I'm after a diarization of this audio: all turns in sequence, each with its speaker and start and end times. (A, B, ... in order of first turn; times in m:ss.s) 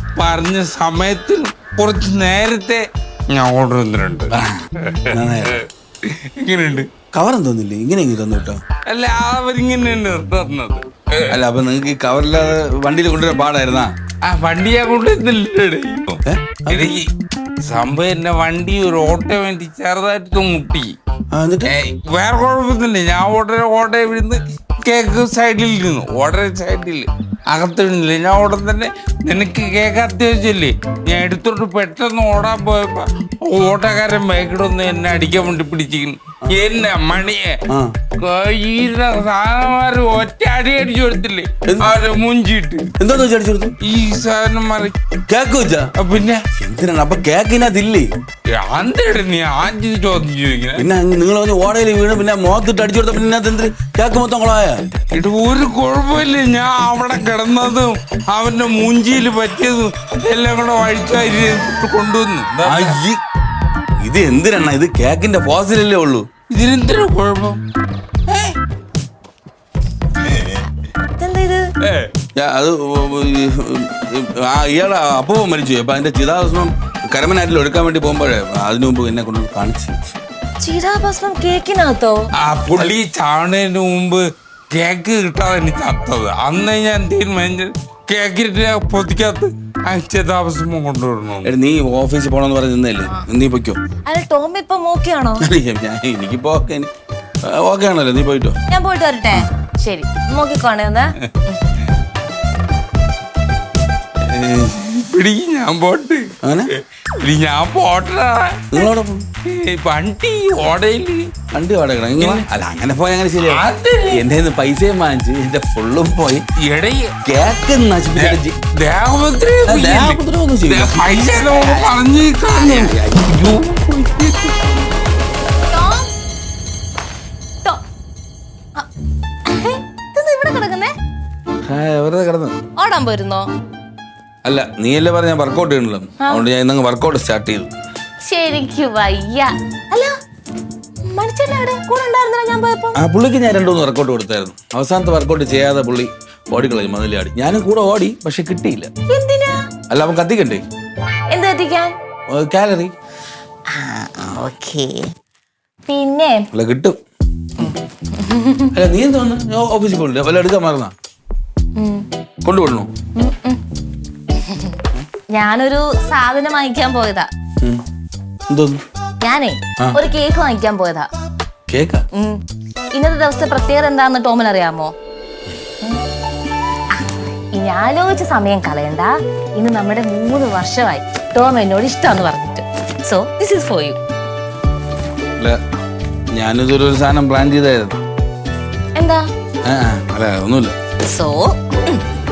0:00.2-0:06.9 A
0:04.3-0:05.6 B
0:07.1-0:08.6 B
0:08.9-0:11.4 A
0:11.3-0:13.9 B
0:14.2-0:17.1 A
0:16.2-0:17.0 B
0:17.6-0:21.0 A
0:21.3-0:21.7 B
0:21.6-0:37.6 A
0:37.7-0:38.0 B
0:38.2-0:42.9 A
0:41.6-0:41.9 B
0:43.0-0:43.7 B
0:43.8-0:44.9 A
0:45.3-0:45.9 B
0:46.0-0:46.4 A
0:46.6-0:48.1 B
0:48.5-0:50.9 A
0:50.8-0:55.0 B
0:55.1-1:03.0 A
1:02.6-1:03.2 B
1:04.0-1:06.3 B
1:06.5-1:07.6 A
1:08.3-1:08.6 A
1:10.3-1:10.6 A
1:11.2-1:11.7 C
1:11.8-1:12.1 A
1:12.3-1:20.0 B
1:20.6-1:22.2 C
1:22.4-1:31.5 A
1:31.4-1:33.8 B
1:34.0-1:35.4 C
1:35.4-1:36.9 B
1:37.4-1:38.6 B
1:38.7-1:41.6 C
1:44.3-1:46.3 A
1:46.4-1:46.7 B
1:47.2-1:48.8 A
1:48.7-1:49.3 B
1:49.4-1:51.3 A
1:51.5-1:56.4 B
1:52.1-1:52.4 A
1:53.5-1:54.2 A
1:56.6-1:57.1 A
1:57.2-1:58.6 B
1:58.2-2:04.8 A
1:59.6-2:02.0 B
2:02.5-2:03.3 B
2:05.7-2:06.1 C
2:09.4-2:10.9 C
2:11.6-2:12.6 B
2:12.8-2:13.5 C
2:14.4-2:17.7 B
2:18.2-2:20.2 C
2:21.0-2:23.0 C
2:22.9-2:28.9 B
2:29.1-2:29.7 C
2:29.9-2:30.6 B
2:31.3-2:31.9 C
2:32.3-2:32.9 B
2:33.7-2:35.1 C
2:35.9-2:36.5 C
2:36.5-2:37.0 B
2:37.6-2:38.7 C
2:38.7-2:40.9 B
2:41.8-2:42.1 C
2:42.4-2:42.9 B
2:43.2-2:43.6 C
2:44.3-2:44.8 C
2:45.3-2:47.3 C
2:48.5-2:48.8 B
2:49.2-2:51.1 C
2:51.7-2:52.0 B
2:52.1-2:52.4 C
2:52.9-2:54.9 C
2:56.9-3:04.0 C
3:06.3-3:08.0 B
3:09.0-3:09.2 C
3:09.6-3:10.7 B
3:11.0-3:12.0 C